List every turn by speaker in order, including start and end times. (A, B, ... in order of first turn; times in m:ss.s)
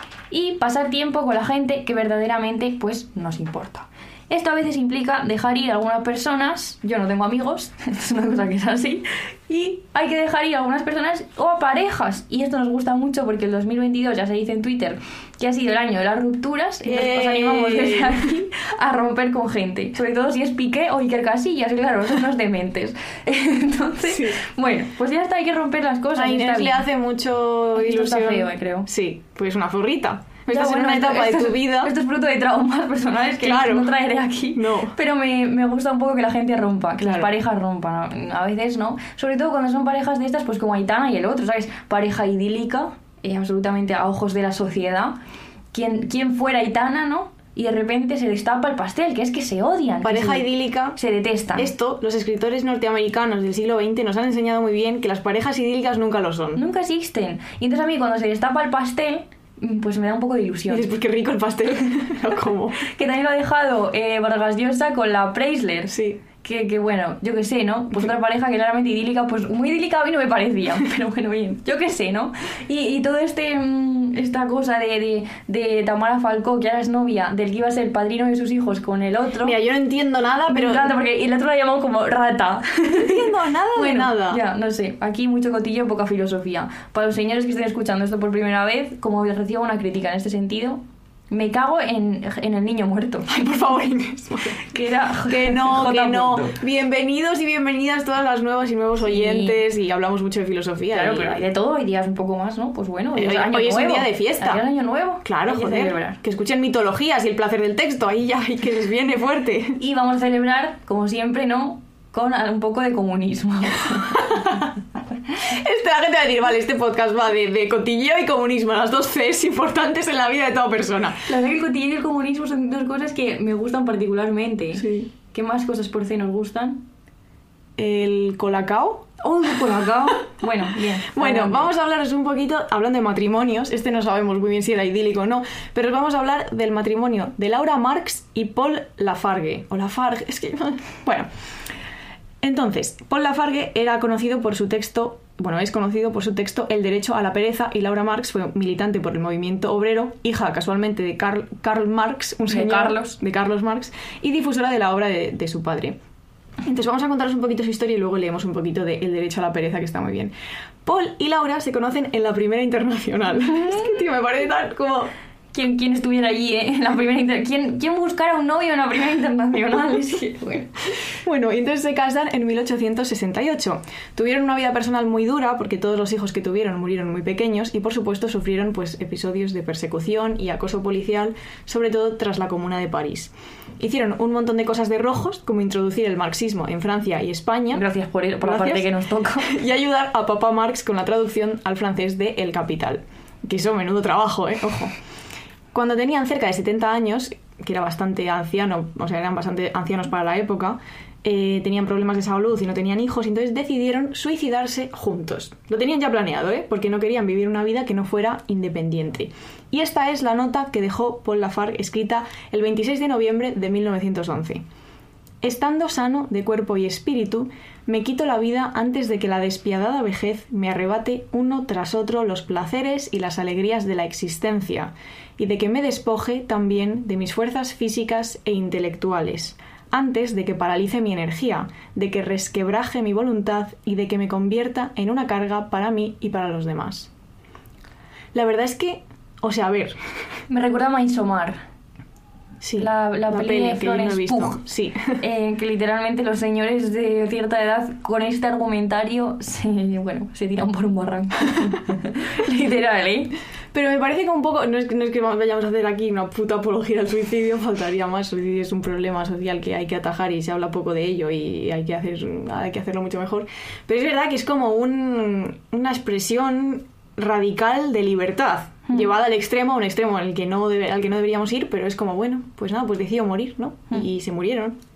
0:00.3-0:26.8 A
0:16.8-0:18.3 B
0:24.1-0:24.4 B
0:26.1-0:31.9 B
0:27.8-0:28.9 A
0:30.5-0:45.2 A
0:33.4-0:33.9 B
0:34.5-0:35.0 B
0:37.0-0:37.3 B
0:45.7-0:51.7 A
0:50.0-0:51.0 B
0:51.5-0:56.6 B
0:56.6-1:00.9 A
1:00.7-1:02.9 B
1:02.8-1:19.6 A
1:05.9-1:06.2 B
1:19.4-1:20.9 B
1:20.5-1:33.4 A
1:22.9-1:24.4 B
1:33.3-1:34.6 B
1:34.6-1:36.6 A
1:35.2-1:41.4 B
1:39.0-1:39.6 A
1:40.9-1:46.2 A
1:43.2-1:44.6 B
1:45.2-1:49.8 B
1:49.8-1:54.6 A
1:54.2-1:54.5 B
1:55.4-2:01.2 B
2:01.2-2:06.9 A
2:04.8-2:05.1 B
2:07.8-2:09.8 B
2:09.3-2:11.7 A
2:11.1-2:21.3 B
2:22.4-2:36.0 B
2:32.5-2:33.2 A
2:36.6-2:45.1 B
2:45.5-2:50.7 A
2:51.2-3:07.8 B
3:07.7-3:09.5 A
3:08.4-3:08.8 B
3:09.4-3:14.9 B
3:15.7-3:34.6 B
3:35.4-3:57.1 B
3:58.3-4:00.0 B
4:00.5-4:01.6 A
4:02.6-4:05.2 B
4:02.8-4:04.6 A
4:05.2-4:13.3 A
4:13.7-4:34.8 B